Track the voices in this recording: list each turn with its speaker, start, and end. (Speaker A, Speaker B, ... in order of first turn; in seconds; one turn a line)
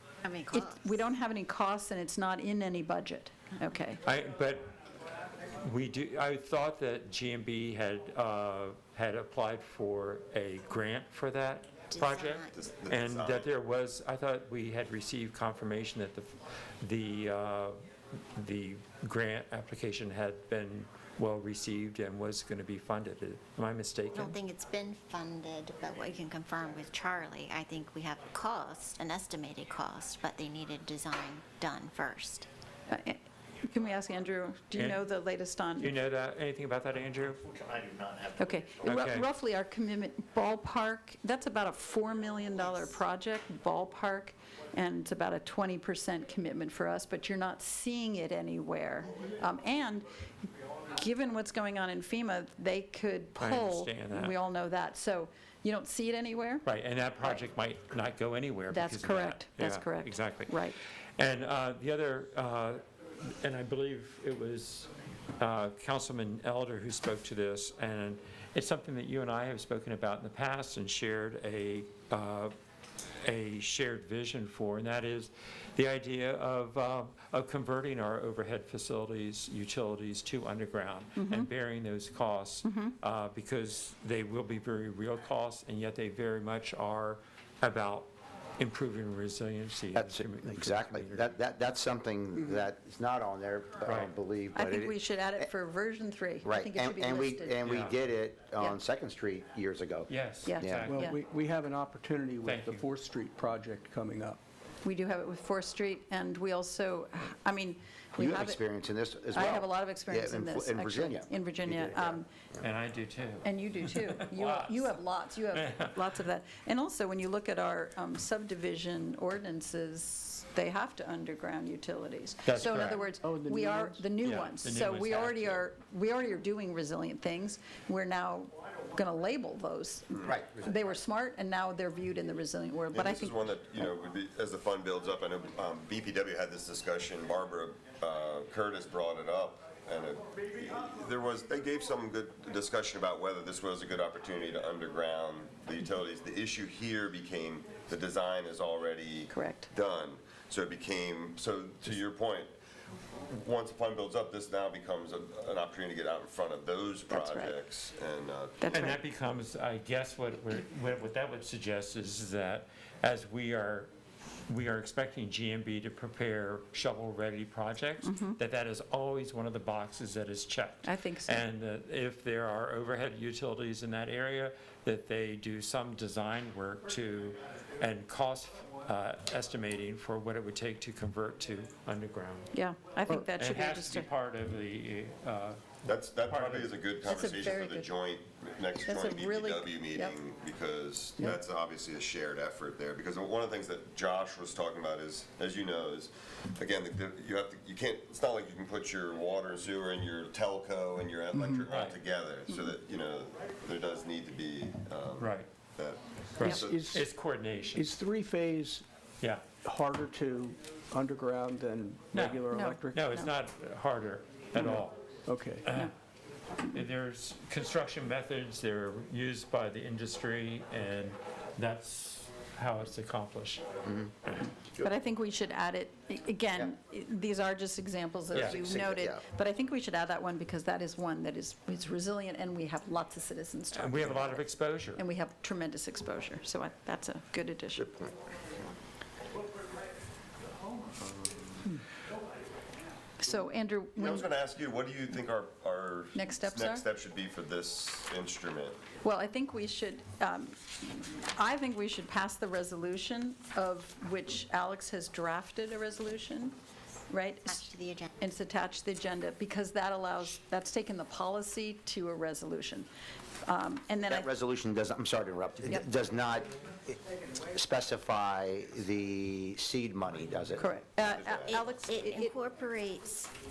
Speaker A: 0.2-1.0
Speaker B: 0.5-4.0
Speaker C: 4.0-4.7
Speaker C: 5.6-17.7
Speaker A: 11.9-12.5
Speaker D: 12.5-13.5
Speaker C: 18.4-24.4
Speaker A: 24.1-32.5
Speaker B: 32.9-35.9
Speaker C: 34.7-35.0
Speaker C: 35.8-37.4
Speaker B: 38.4-50.1
Speaker C: 38.8-39.3
Speaker B: 50.9-56.6
Speaker C: 53.4-54.4
Speaker C: 56.6-60.6
Speaker B: 58.7-60.8
Speaker C: 61.2-72.5
Speaker C: 73.2-91.3
Speaker B: 81.2-81.5
Speaker B: 82.6-82.9
Speaker E: 89.9-95.5
Speaker C: 93.8-94.1
Speaker B: 94.5-97.6
Speaker E: 96.4-100.1
Speaker C: 97.6-98.0
Speaker C: 100.1-101.1
Speaker B: 100.4-101.2
Speaker E: 100.6-100.9
Speaker F: 100.8-104.4
Speaker C: 102.4-102.8
Speaker B: 104.8-108.6
Speaker E: 108.2-112.2
Speaker B: 109.3-112.3
Speaker C: 112.6-116.0
Speaker B: 113.4-133.5
Speaker C: 122.4-123.1
Speaker F: 123.2-124.0
Speaker C: 124.2-125.6
Speaker E: 130.2-130.8
Speaker D: 132.9-152.5
Speaker B: 149.3-149.7
Speaker D: 153.2-158.9
Speaker B: 157.1-157.6
Speaker B: 158.6-159.0
Speaker C: 158.7-163.9
Speaker C: 164.5-182.5
Speaker B: 168.0-168.4
Speaker B: 170.8-171.4
Speaker B: 182.5-184.1
Speaker C: 183.1-186.8
Speaker D: 185.8-207.0
Speaker B: 187.0-187.9
Speaker B: 188.9-190.1
Speaker F: 201.3-201.6
Speaker C: 201.7-202.0
Speaker C: 205.2-205.5
Speaker C: 206.4-207.9
Speaker F: 206.4-207.1
Speaker F: 207.7-208.8
Speaker C: 209.2-209.4
Speaker F: 209.6-213.1
Speaker C: 212.1-215.0
Speaker B: 212.5-213.3
Speaker F: 214.5-215.7
Speaker C: 215.6-215.9
Speaker C: 216.7-223.6
Speaker C: 224.2-224.5
Speaker B: 224.8-238.0
Speaker C: 228.3-228.6
Speaker E: 228.4-229.2
Speaker C: 233.7-235.0
Speaker B: 243.2-244.3
Speaker D: 243.9-248.8
Speaker B: 246.1-246.8
Speaker B: 249.0-256.6
Speaker B: 257.1-262.9
Speaker A: 257.5-258.1
Speaker B: 263.4-264.3
Speaker E: 264.1-267.0
Speaker E: 267.5-270.7
Speaker B: 270.6-272.4
Speaker D: 271.0-271.7
Speaker A: 271.4-273.3